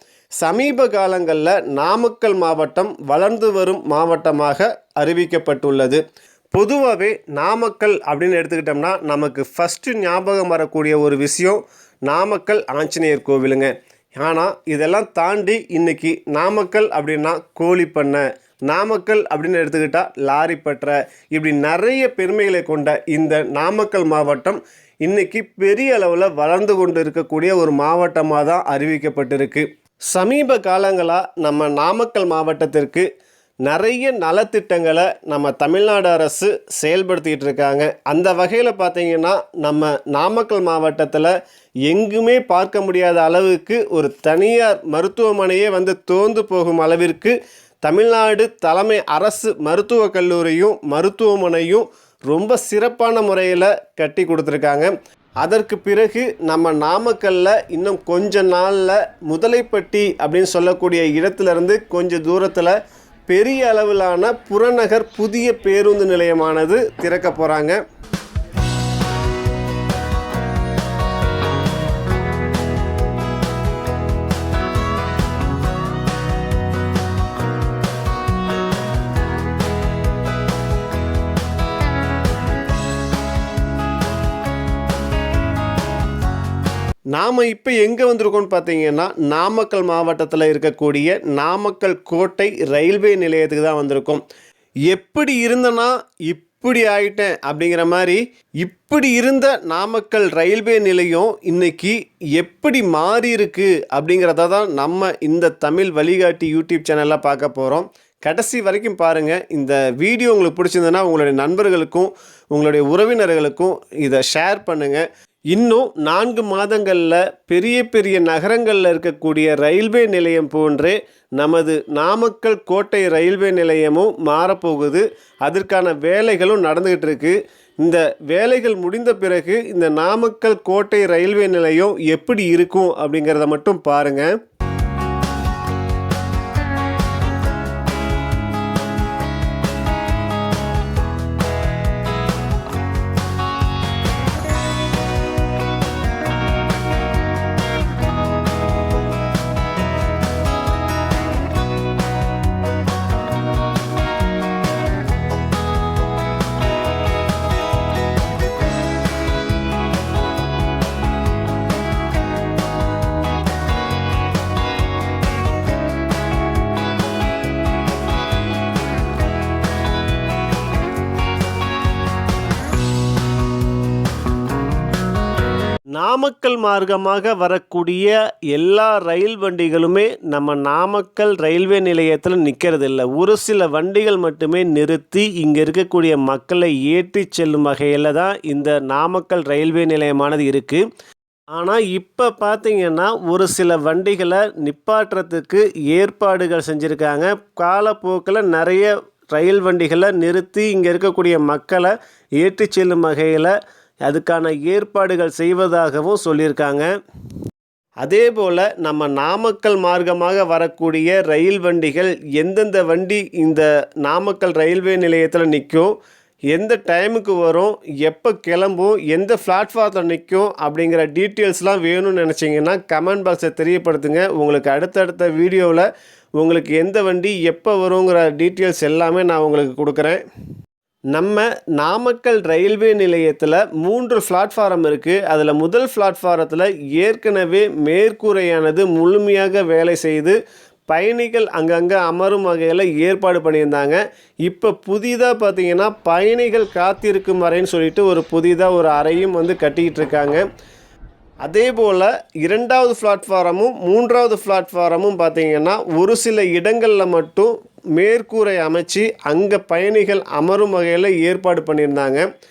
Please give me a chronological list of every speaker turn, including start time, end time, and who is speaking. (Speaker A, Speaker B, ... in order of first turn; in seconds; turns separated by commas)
Speaker A: 0.4-6.0, Speaker A: 6.5-33.1, Speaker A: 33.6-41.3, Speaker A: 41.9-62.7, Speaker A: 63.3-67.8, Speaker A: 87.1-94.2, Speaker A: 94.9-134.3, Speaker A: 175.9-190.8, Speaker A: 191.5-203.6, Speaker A: 204.1-206.9, Speaker A: 208.0-216.0, Speaker A: 216.5-225.9, Speaker A: 226.4-230.2, Speaker A: 231.1-240.4, Speaker A: 240.9-250.4, Speaker A: 251.4-262.3